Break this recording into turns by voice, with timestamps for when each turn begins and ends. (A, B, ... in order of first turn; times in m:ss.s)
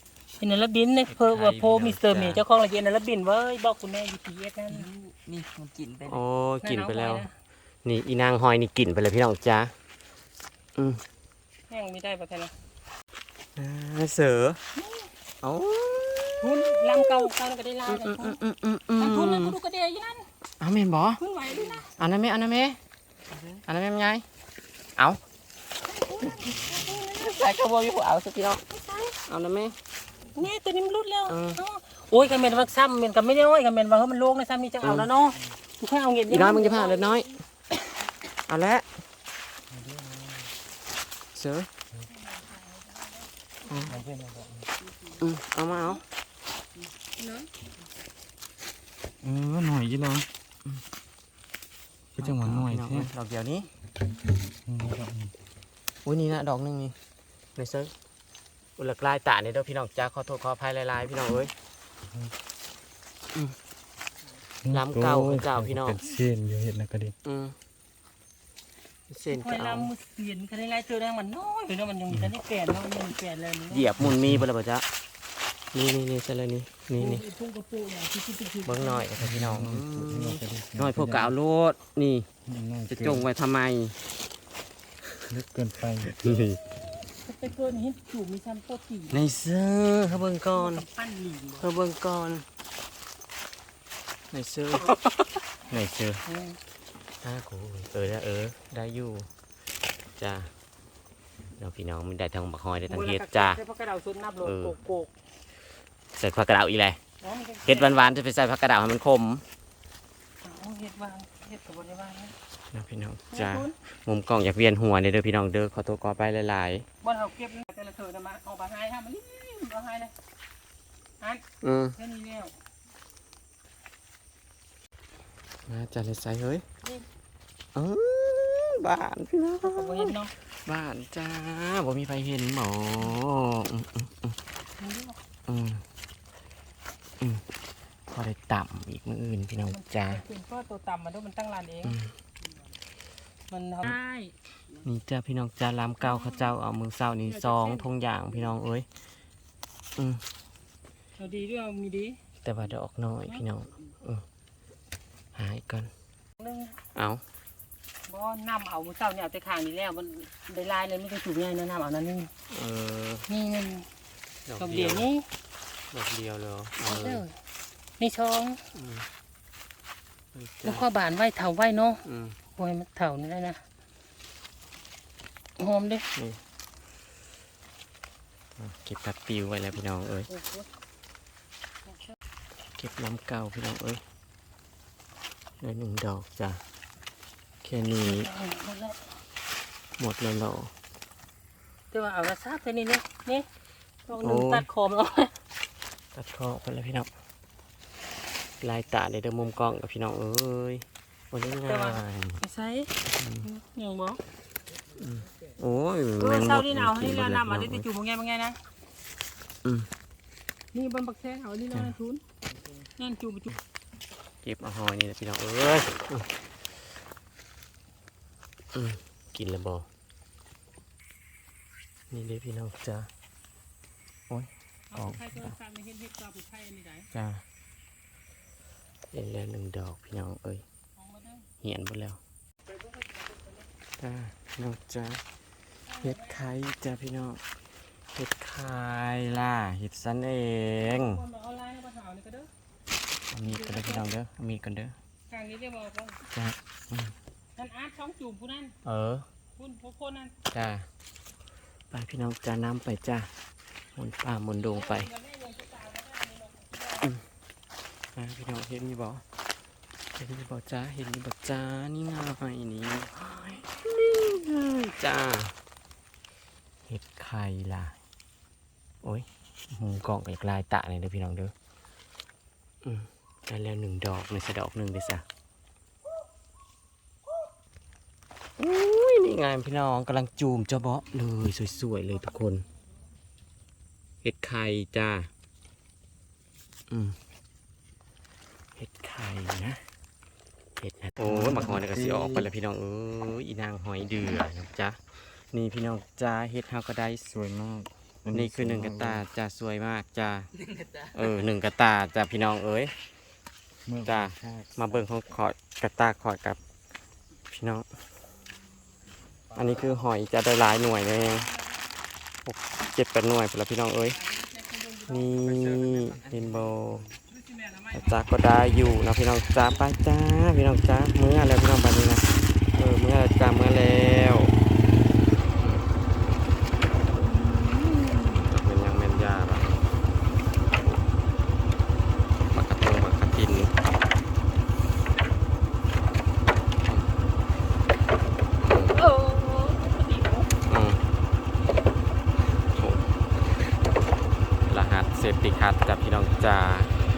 0:00.4-0:04.9 A
0:01.1-0:02.4 B
0:04.7-0:06.2 C
0:06.0-0:07.2 B
0:06.6-0:07.3 A
0:07.8-0:09.7 B
0:11.7-0:12.5 A
0:13.6-0:14.6 B
0:14.8-0:15.1 A
0:15.4-0:17.3 B
0:16.4-0:18.4 A
0:17.9-0:19.6 B
0:19.0-0:20.3 A
0:20.6-0:21.2 B
0:21.2-0:21.9 A
0:21.5-0:21.8 C
0:22.0-0:22.8 B
0:23.3-0:23.6 C
0:23.6-0:24.2 B
0:25.8-0:27.4 A
0:26.2-0:26.5 B
0:26.4-0:26.7 D
0:27.1-0:28.6 B
0:28.7-0:29.2 A
0:29.2-0:29.7 B
0:30.3-0:37.2 A
0:31.3-0:31.6 B
0:34.8-0:35.1 B
0:36.3-0:37.4 B
0:38.5-0:38.8 B
0:39.7-0:40.4 D
0:41.3-0:41.7 B
0:42.1-0:43.3 A
0:43.7-0:43.9 B
0:43.9-0:44.6 D
0:45.2-0:46.0 B
0:47.2-0:47.5 A
0:49.2-0:50.3 D
0:52.2-0:53.1 D
0:52.2-0:53.7 B
0:54.6-0:55.3 D
0:56.0-0:56.9 B
0:57.6-0:57.9 B
0:58.8-1:01.5 B
1:04.6-1:07.1 D
1:04.7-1:06.0 B
1:07.2-1:07.6 B
1:09.1-1:09.9 B
1:09.3-1:14.0 A
1:13.7-1:14.8 B
1:14.0-1:14.5 D
1:15.7-1:17.2 B
1:17.0-1:19.1 A
1:18.6-1:22.3 B
1:19.2-1:21.3 D
1:22.4-1:23.3 D
1:22.9-1:23.9 B
1:25.3-1:26.1 D
1:26.0-1:26.6 B
1:27.1-1:29.2 A
1:29.1-1:30.8 B
1:30.5-1:31.7 A
1:31.6-1:32.4 B
1:34.3-1:34.9 B
1:35.7-1:36.2 B
1:36.2-1:36.6 A
1:37.2-1:39.3 B
1:40.2-1:40.5 B
1:41.6-1:43.6 B
1:42.8-1:45.1 A
1:44.4-1:44.8 B
1:46.1-1:47.0 B
1:47.2-1:47.9 A
1:47.6-1:49.4 B
1:50.4-1:52.3 A
1:52.7-1:56.8 B
1:53.3-1:53.7 A
1:57.0-2:00.1 A
2:01.6-2:02.0 B
2:02.0-2:02.6 A
2:05.7-2:06.6 B
2:07.7-2:14.4 B
2:09.6-2:10.3 A
2:14.8-2:15.2 A
2:15.5-2:15.8 B
2:18.1-2:20.2 B
2:19.7-2:22.0 A
2:21.8-2:22.1 B
2:23.5-2:24.3 A
2:24.8-2:28.9 B
2:26.0-2:26.5 A
2:27.2-2:27.9 A
2:30.0-2:30.2 B
2:31.2-2:32.2 A
2:32.4-2:34.2 B
2:35.3-2:35.9 B
2:36.4-2:36.8 A
2:36.9-2:37.2 B
2:38.1-2:42.3 A
2:42.5-2:43.2 B
2:43.3-2:43.9 A
2:44.4-2:45.1 B
2:44.6-2:45.2 A
2:45.9-2:47.2 B
2:46.8-2:47.3 A
2:48.0-2:48.6 A
2:48.7-2:49.0 B
2:50.3-2:50.8 B
2:50.6-2:52.0 A
2:52.0-2:52.4 B
2:52.6-2:53.6 A
2:55.6-2:56.0 A
2:58.6-3:00.3 B
3:00.3-3:00.7 A
3:02.8-3:04.0 B
3:05.6-3:06.6 B
3:07.6-3:08.3 B
3:08.0-3:09.0 A
3:10.0-3:10.7 B
3:11.9-3:13.4 A
3:14.1-3:15.3 A
3:14.2-3:14.6 B
3:16.1-3:17.1 B
3:18.6-3:22.4 B
3:21.6-3:24.2 A
3:23.1-3:23.5 B
3:25.0-3:27.8 B
3:26.2-3:28.6 A
3:30.7-3:32.2 A
3:33.0-3:33.5 A
3:34.4-3:36.3 B
3:38.7-3:39.9 B
3:42.1-3:43.1 B
3:44.3-3:45.6 B
3:44.9-3:47.1 A
3:47.1-3:47.4 B
3:49.1-3:50.6 B
3:51.0-3:51.5 A
3:51.6-3:52.2 B
3:52.7-3:53.6 A
3:54.0-3:55.2 B
3:55.9-3:56.5 A
3:56.0-3:57.4 B
3:58.1-4:01.2 B
4:00.8-4:02.5 A
4:03.3-4:04.9 B
4:03.4-4:04.1 A
4:05.3-4:06.2 A
4:06.3-4:07.1 B
4:07.6-4:08.7 A
4:08.8-4:09.2 B
4:09.6-4:10.3 A
4:10.5-4:10.9 B
4:11.9-4:13.3 B
4:14.0-4:15.1 B
4:14.7-4:17.1 A
4:18.1-4:19.2 B
4:20.2-4:25.5 B
4:26.9-4:27.9 B
4:29.0-4:31.5 B
4:32.8-4:35.2 B
4:38.6-4:42.6 B
4:44.2-4:45.3 B
4:46.9-4:47.2 B
4:48.8-4:49.8 B
4:50.8-4:57.3 B
4:51.2-4:52.5 D
4:57.3-4:59.2 D
4:58.3-5:00.5 B
5:01.1-5:02.9 B
5:03.8-5:05.1 D
5:04.0-5:06.6 B
5:07.5-5:07.9 B
5:09.5-5:11.5 B
5:09.5-5:09.9 D
5:12.4-5:14.2 B
5:14.2-5:15.2 A
5:15.1-5:17.1 B
5:15.4-5:16.8 D
5:17.4-5:18.1 A
5:17.9-5:24.5 B
5:25.6-5:25.8 B
5:27.8-5:29.7 B
5:32.5-5:33.7 B
5:38.6-5:39.0 B
5:38.9-5:40.5 A
5:40.7-5:41.0 B
5:42.6-5:43.0 B
5:44.6-5:46.9 B